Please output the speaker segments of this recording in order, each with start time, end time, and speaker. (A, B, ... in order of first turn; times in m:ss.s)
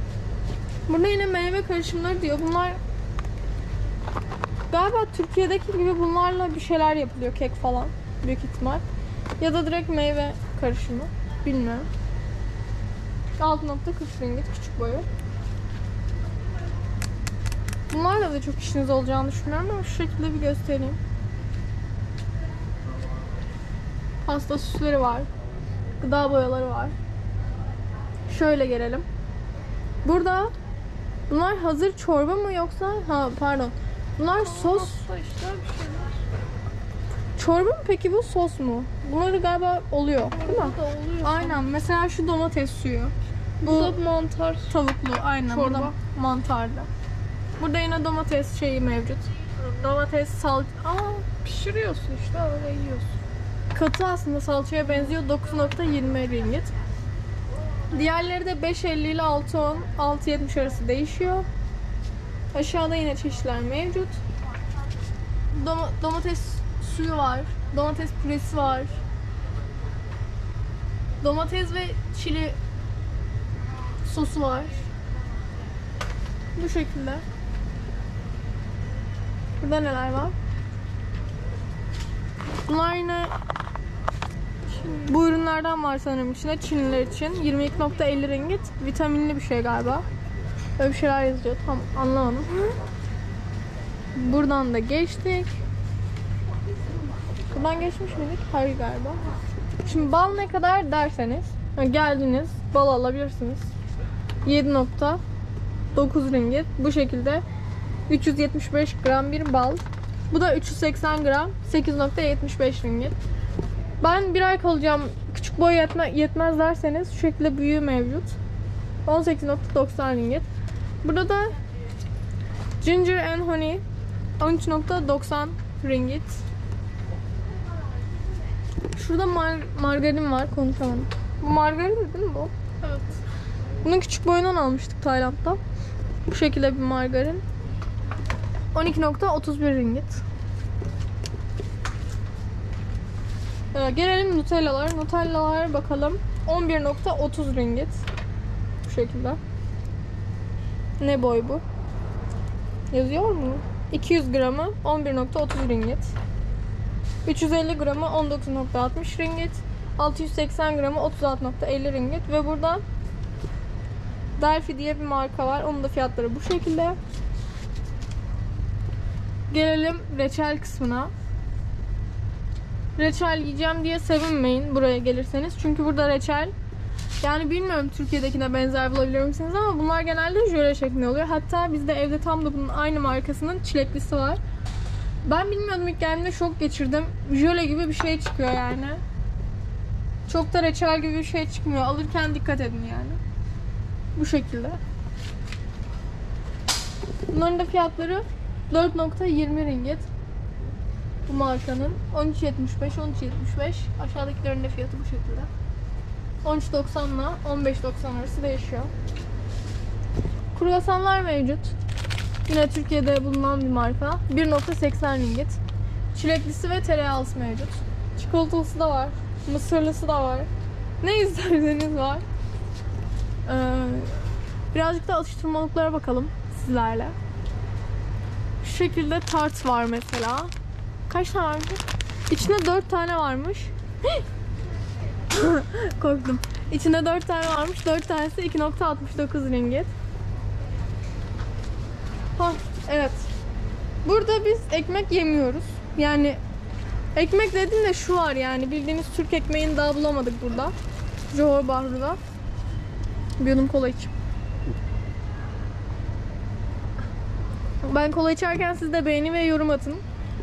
0:00.9-0:02.8 A
0:04.7-0:08.8 A
0:09.4-0:11.9 A
0:13.4-0:15.1 A
0:17.9-0:21.0 A
0:24.3-0:25.3 A
0:26.0-0:26.9 A
0:28.3-0:29.1 A
0:30.0-0:30.5 A
0:31.3-0:35.0 A
0:34.4-0:36.1 B
0:37.4-0:44.0 A
0:40.3-0:41.6 B
0:43.6-0:44.8 B
0:44.7-0:46.9 A
0:45.5-0:46.0 B
0:47.6-0:51.2 A
0:51.2-0:53.2 B
0:53.7-0:56.7 A
0:57.9-1:01.5 A
1:02.5-1:04.2 A
1:05.5-1:09.0 A
1:11.2-1:12.6 A
1:14.0-1:14.8 A
1:16.6-1:17.2 A
1:19.6-1:20.4 A
1:22.7-1:23.3 A
1:24.8-1:30.0 A
1:30.8-1:32.8 A
1:34.2-1:35.6 A
1:37.5-1:39.2 A
1:39.8-1:43.7 A
1:44.4-1:45.2 A
1:46.0-1:47.4 A
1:48.1-1:53.2 A
1:54.0-1:58.4 A
1:59.1-2:00.5 A
2:01.0-2:01.6 A
2:02.8-2:03.8 A
2:04.4-2:06.4 A
2:09.0-2:12.5 A
2:12.8-2:13.1 B
2:13.8-2:15.6 A
2:16.3-2:17.4 A
2:18.7-2:20.2 A
2:23.7-2:28.0 A
2:28.8-2:29.4 A
2:31.0-2:31.6 A
2:32.9-2:36.1 A
2:37.2-2:42.8 A
2:44.4-2:47.0 A
2:49.5-2:51.1 A
2:53.0-2:56.5 A
2:57.2-3:04.4 A
3:05.2-3:09.0 A
3:10.3-3:13.2 A
3:14.2-3:14.8 A
3:17.3-3:20.1 A
3:21.3-3:25.5 A
3:26.4-3:28.9 A
3:30.6-3:31.7 A
3:32.5-3:35.6 A
3:36.1-3:40.5 A
3:41.0-3:42.2 A
3:43.5-3:44.1 A
3:44.7-3:47.2 A
3:48.6-3:50.5 A
3:51.1-3:54.2 A
3:55.3-3:59.9 A
4:02.4-4:03.3 A
4:04.0-4:06.4 A
4:07.2-4:10.7 A
4:11.3-4:12.2 A
4:13.4-4:14.1 A
4:17.8-4:20.0 A